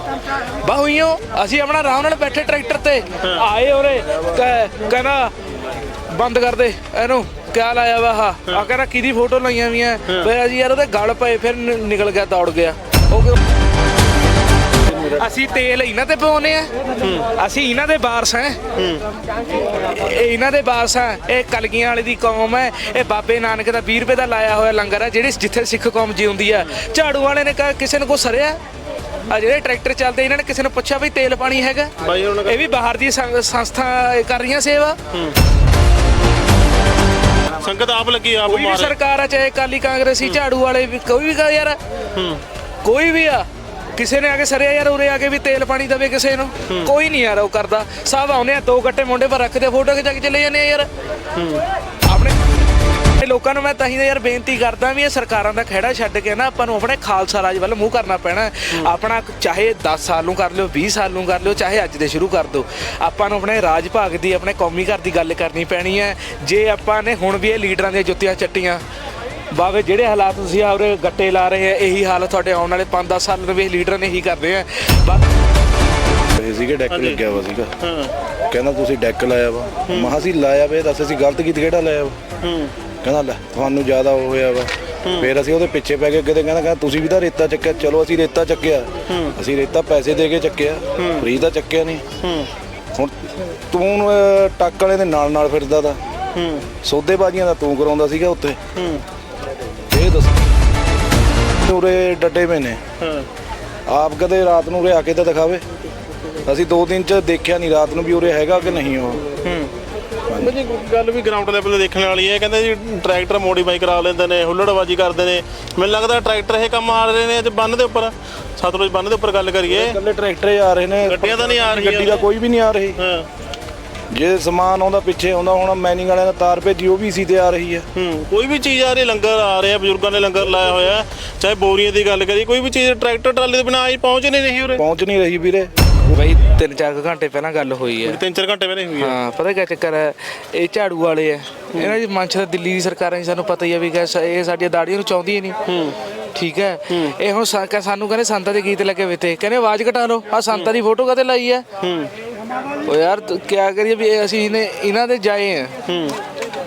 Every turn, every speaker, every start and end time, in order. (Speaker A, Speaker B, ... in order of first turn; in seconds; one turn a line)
Speaker A: 0.6-5.3
Speaker A: 6.1-13.4
Speaker A: 14.9-16.7
Speaker B: 17.0-17.3
Speaker A: 17.3-18.6
Speaker B: 18.8-19.0
Speaker A: 19.7-28.6
Speaker A: 29.3-31.9
Speaker B: 32.0-32.6
Speaker A: 32.5-35.0
Speaker B: 37.6-38.9
Speaker A: 38.5-41.8
Speaker B: 42.1-42.4
Speaker A: 42.8-50.9
Speaker B: 51.4-51.6
Speaker A: 52.1-52.3
Speaker A: 53.2-68.8
Speaker A: 69.5-75.2
Speaker C: 76.3-77.7
Speaker B: 76.9-77.2
Speaker B: 77.8-78.1
Speaker C: 78.5-82.2
Speaker B: 79.9-80.2
Speaker B: 82.4-82.7
Speaker C: 83.0-92.0
Speaker B: 85.0-85.3
Speaker B: 89.1-89.4
Speaker B: 91.0-91.3
Speaker B: 92.2-92.5
Speaker C: 93.7-96.0
Speaker B: 96.3-96.7
Speaker C: 96.8-98.6
Speaker B: 98.8-99.0
Speaker C: 99.9-100.4
Speaker C: 101.6-102.8
Speaker B: 103.0-103.3
Speaker C: 103.9-105.6
Speaker C: 106.5-109.2
Speaker B: 109.4-109.7
Speaker C: 110.3-110.5
Speaker B: 110.4-120.0
Speaker C: 119.7-123.0
Speaker B: 121.1-122.2
Speaker B: 123.0-123.3
Speaker C: 124.1-127.9
Speaker B: 128.0-134.8
Speaker C: 134.8-136.2
Speaker A: 136.2-138.2
Speaker B: 138.1-139.2
Speaker A: 139.0-145.6
Speaker B: 145.7-146.0
Speaker A: 146.3-151.7
Speaker B: 151.8-152.1
Speaker A: 152.8-155.8
Speaker B: 155.9-156.2